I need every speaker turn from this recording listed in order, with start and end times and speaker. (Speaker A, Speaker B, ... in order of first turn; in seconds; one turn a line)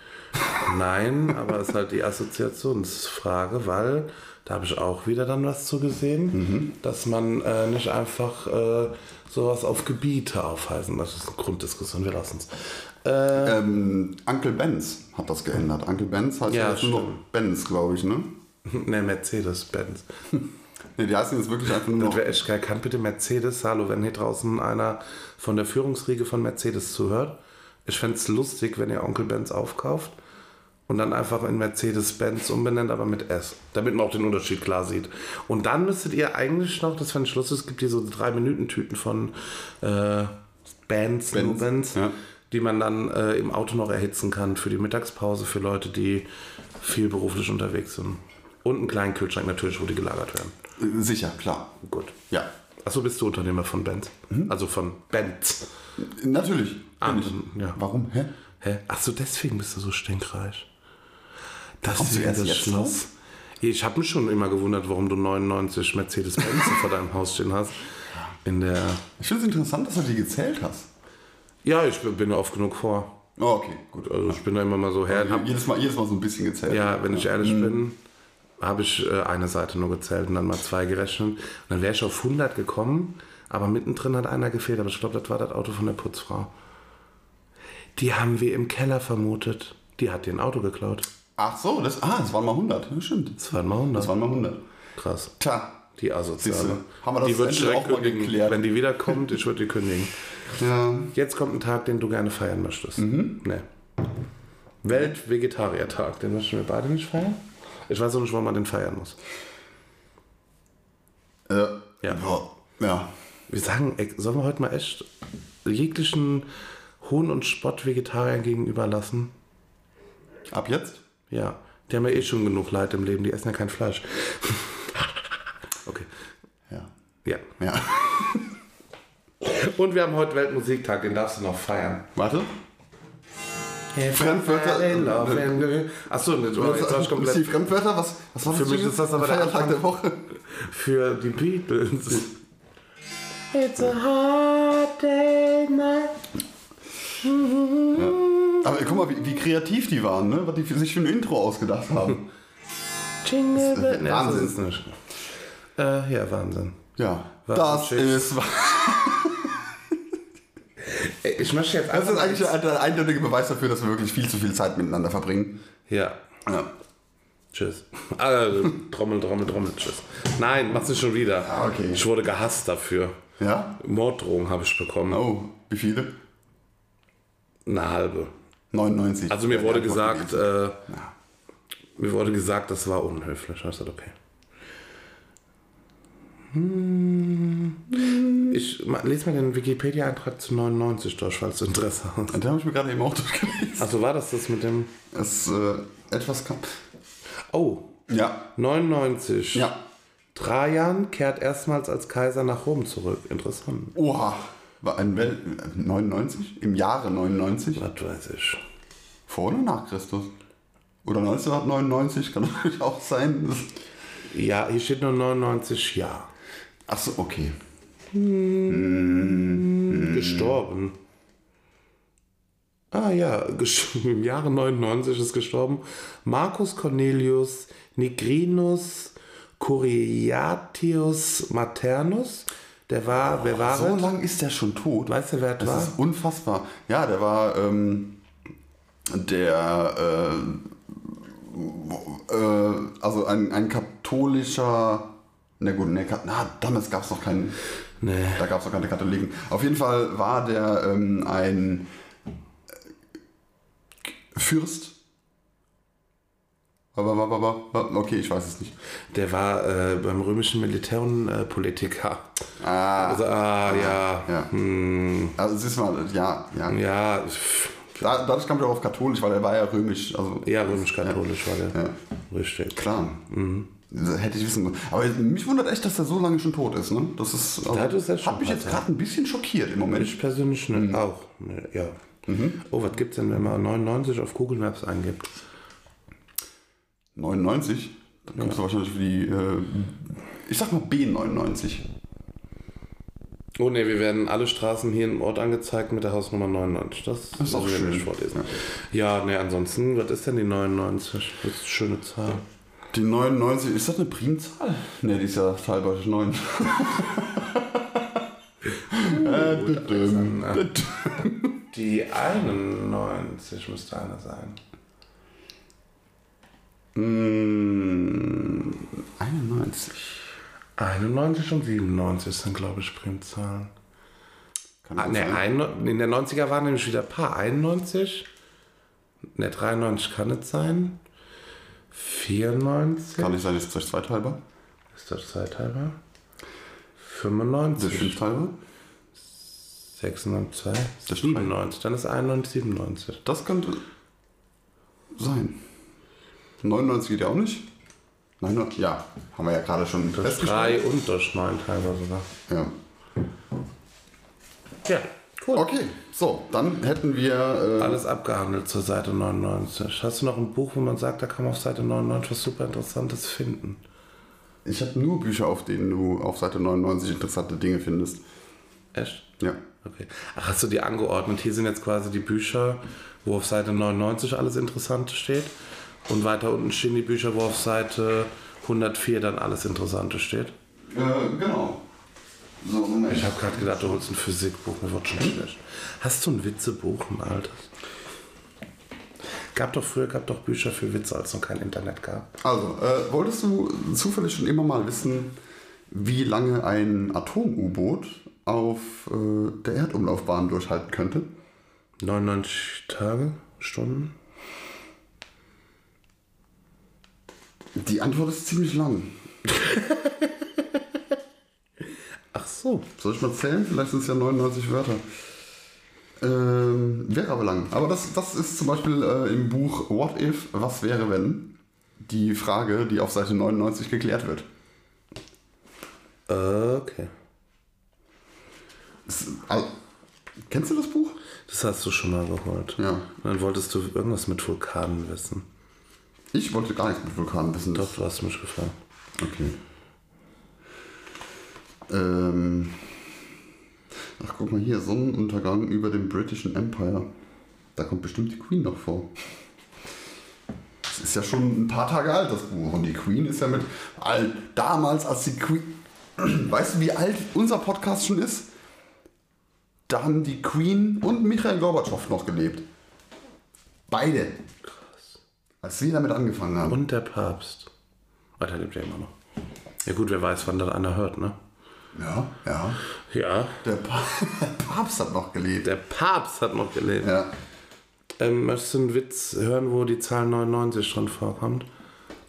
Speaker A: 0.6-13.6
Speaker B: 6.3-6.7
Speaker B: 13.3-18.3
Speaker A: 16.5-17.2
Speaker A: 18.6-20.1
Speaker B: 20.9-22.3
Speaker A: 21.9-30.1
Speaker A: 30.9-40.3
Speaker A: 40.9-46.2
Speaker B: 41.3-42.1
Speaker A: 46.8-50.5
Speaker B: 50.8-51.7
Speaker A: 51.8-52.2
Speaker A: 52.8-55.7
Speaker B: 56.0-58.3
Speaker A: 57.0-57.8
Speaker A: 58.6-60.7
Speaker A: 61.8-63.1
Speaker B: 61.9-63.0
Speaker A: 63.6-67.9
Speaker A: 68.4-69.0
Speaker B: 69.2-70.9
Speaker A: 71.6-73.2
Speaker B: 73.4-74.4
Speaker A: 74.0-75.5
Speaker B: 75.1-77.8
Speaker A: 76.7-78.0
Speaker A: 78.6-86.5
Speaker A: 88.0-91.1
Speaker B: 91.4-93.4
Speaker A: 93.4-94.1
Speaker B: 93.9-94.6
Speaker A: 95.0-95.3
Speaker B: 95.4-95.8
Speaker A: 96.0-100.1
Speaker B: 96.4-99.2
Speaker B: 100.6-101.1
Speaker A: 101.1-103.6
Speaker B: 103.0-103.4
Speaker A: 104.8-109.2
Speaker B: 111.5-113.1
Speaker A: 113.5-115.1
Speaker A: 115.6-116.5
Speaker A: 117.0-119.3
Speaker B: 120.5-121.0
Speaker A: 121.3-125.3
Speaker B: 127.6-128.5
Speaker A: 129.4-132.1
Speaker B: 132.1-132.5
Speaker A: 133.9-137.6
Speaker B: 134.1-135.7
Speaker B: 136.5-140.2
Speaker A: 138.4-139.8
Speaker A: 140.3-142.3
Speaker A: 143.5-146.2
Speaker A: 147.2-149.0
Speaker B: 147.9-152.3
Speaker A: 153.2-154.9
Speaker B: 153.5-154.6
Speaker A: 155.8-156.8
Speaker B: 157.0-159.9
Speaker A: 157.5-158.3
Speaker A: 160.8-162.6
Speaker B: 161.9-165.6
Speaker A: 165.9-166.2
Speaker B: 166.4-166.7
Speaker A: 167.5-173.2
Speaker B: 171.4-172.0
Speaker B: 173.4-173.8
Speaker A: 173.8-175.2
Speaker B: 175.1-176.1
Speaker A: 177.7-178.3
Speaker B: 178.7-181.1
Speaker A: 179.3-180.8
Speaker A: 182.0-184.1
Speaker A: 186.5-192.4
Speaker B: 187.9-188.6
Speaker B: 192.3-193.9
Speaker A: 193.8-194.9
Speaker B: 195.1-196.7
Speaker A: 197.5-197.9
Speaker B: 198.1-198.5
Speaker A: 198.6-199.7
Speaker A: 200.3-203.9
Speaker B: 203.9-207.8
Speaker A: 207.7-208.6
Speaker B: 209.3-210.3
Speaker B: 211.0-213.7
Speaker A: 214.3-216.3
Speaker B: 216.9-217.5
Speaker A: 218.1-220.9
Speaker B: 218.7-220.6
Speaker A: 222.9-234.1
Speaker B: 233.3-238.2
Speaker A: 235.1-235.9
Speaker B: 239.1-247.6
Speaker A: 248.0-248.5
Speaker B: 248.3-251.9
Speaker B: 254.3-255.0
Speaker B: 256.9-258.7
Speaker A: 259.1-262.3
Speaker B: 262.6-264.5
Speaker A: 263.0-265.4
Speaker B: 265.4-266.8
Speaker A: 266.7-268.0
Speaker B: 267.9-271.9
Speaker A: 270.4-271.8
Speaker A: 272.3-273.7
Speaker B: 272.7-273.2
Speaker B: 273.9-280.1
Speaker A: 277.7-278.8
Speaker A: 279.9-282.0
Speaker B: 280.7-281.0
Speaker B: 282.3-282.6
Speaker A: 282.6-285.4
Speaker B: 287.1-291.8
Speaker A: 293.6-302.4
Speaker B: 297.4-298.5
Speaker B: 302.9-308.2
Speaker A: 308.9-310.6
Speaker B: 308.9-311.6
Speaker A: 311.7-314.6
Speaker B: 316.9-320.3
Speaker A: 320.8-323.7
Speaker B: 324.8-325.4
Speaker A: 325.0-328.3
Speaker A: 329.3-331.0
Speaker A: 331.9-333.4
Speaker B: 333.2-334.4
Speaker A: 334.9-336.0
Speaker A: 337.0-338.2
Speaker B: 337.8-338.5
Speaker A: 339.8-343.2
Speaker B: 341.1-341.5
Speaker B: 343.2-343.8
Speaker B: 345.1-345.6
Speaker B: 346.6-347.7
Speaker B: 348.4-350.8
Speaker A: 350.1-352.3
Speaker B: 352.5-352.7
Speaker A: 354.8-355.7
Speaker B: 355.5-358.0
Speaker A: 357.8-363.8
Speaker B: 364.6-368.2
Speaker A: 368.9-369.3
Speaker A: 369.8-375.5
Speaker A: 376.1-380.5
Speaker B: 380.9-381.8
Speaker B: 382.6-384.0
Speaker A: 383.1-387.7
Speaker A: 389.5-392.3
Speaker B: 392.4-395.4
Speaker B: 395.9-401.3
Speaker A: 402.0-404.1
Speaker B: 407.8-409.2
Speaker A: 409.6-410.2
Speaker A: 412.3-412.9
Speaker B: 413.0-415.0
Speaker B: 416.2-424.5
Speaker A: 426.3-427.1
Speaker B: 429.1-429.7
Speaker B: 430.5-431.2
Speaker A: 431.5-435.4
Speaker B: 432.8-433.1
Speaker B: 436.3-438.0
Speaker A: 437.7-438.7
Speaker B: 439.2-439.6
Speaker B: 441.9-442.9
Speaker B: 444.2-447.1
Speaker B: 447.8-449.1
Speaker B: 450.9-458.5
Speaker B: 459.9-462.6
Speaker B: 463.9-464.4
Speaker B: 465.6-466.8
Speaker A: 466.6-467.7
Speaker A: 468.4-469.1
Speaker A: 469.8-471.4
Speaker B: 471.9-472.8
Speaker A: 473.1-473.6
Speaker B: 473.6-475.7
Speaker A: 475.6-477.1
Speaker B: 477.0-477.3
Speaker A: 478.2-481.6